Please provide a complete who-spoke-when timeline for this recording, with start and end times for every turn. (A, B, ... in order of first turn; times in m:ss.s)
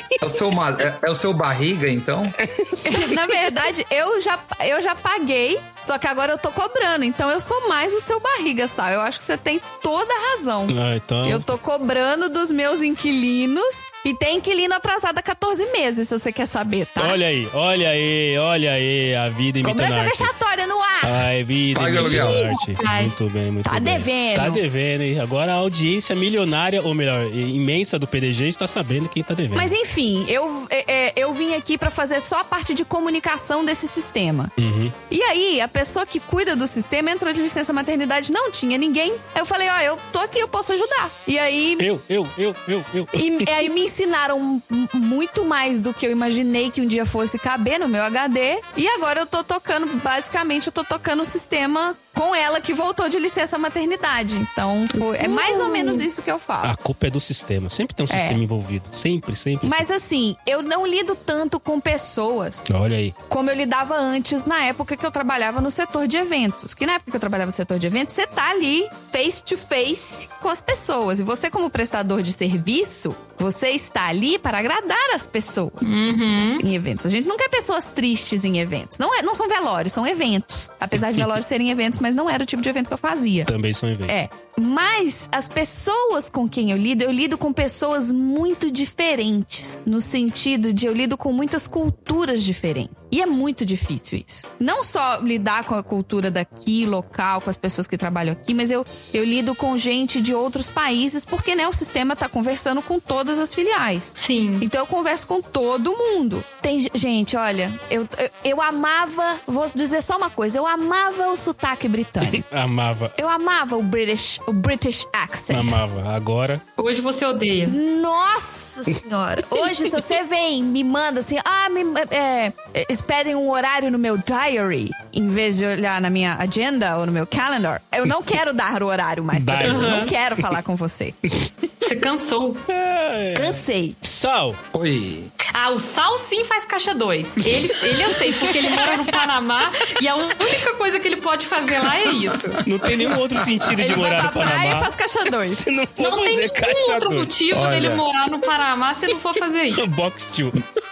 0:00.2-0:02.4 A
0:02.4-0:03.2 B
0:02.8-0:17.2 C
0:10.7-0:11.5 B
0:17.0-0:20.3 B
0:19.6-0:21.3 C
0:21.0-0:29.7 B
0:21.7-0:22.4 A
0:21.9-0:23.2 D
0:23.6-0:24.6 C
0:29.5-0:34.5 C
0:34.6-0:34.9 B
0:35.1-0:41.9 C
0:41.8-0:43.5 B
0:43.1-0:56.7 C
0:55.0-0:56.0 D
0:56.6-0:59.8 B
0:58.1-0:58.4 C
0:59.6-1:02.7 C
1:02.7-1:03.1 B
1:03.3-1:15.8 C
1:15.8-1:16.6 D
1:16.6-1:23.5 C
1:23.4-1:24.2 B
1:24.1-1:52.4 C
1:44.2-1:44.7 D
1:52.2-1:53.2 B
1:53.2-1:55.8 C
1:55.5-1:56.6 B
1:56.8-1:57.8 D
1:57.6-2:11.2 C
2:09.3-2:10.1 B
2:09.6-2:10.1 D
2:11.8-2:12.6 D
2:12.7-2:14.6 B
2:13.3-2:14.0 C
2:14.7-2:15.3 A
2:15.5-2:22.6 D
2:18.1-2:18.9 C
2:22.6-2:23.2 A
2:22.6-2:27.3 B
2:23.7-2:25.6 C
2:26.0-2:29.8 D
2:27.5-2:28.0 A
2:29.7-2:30.6 B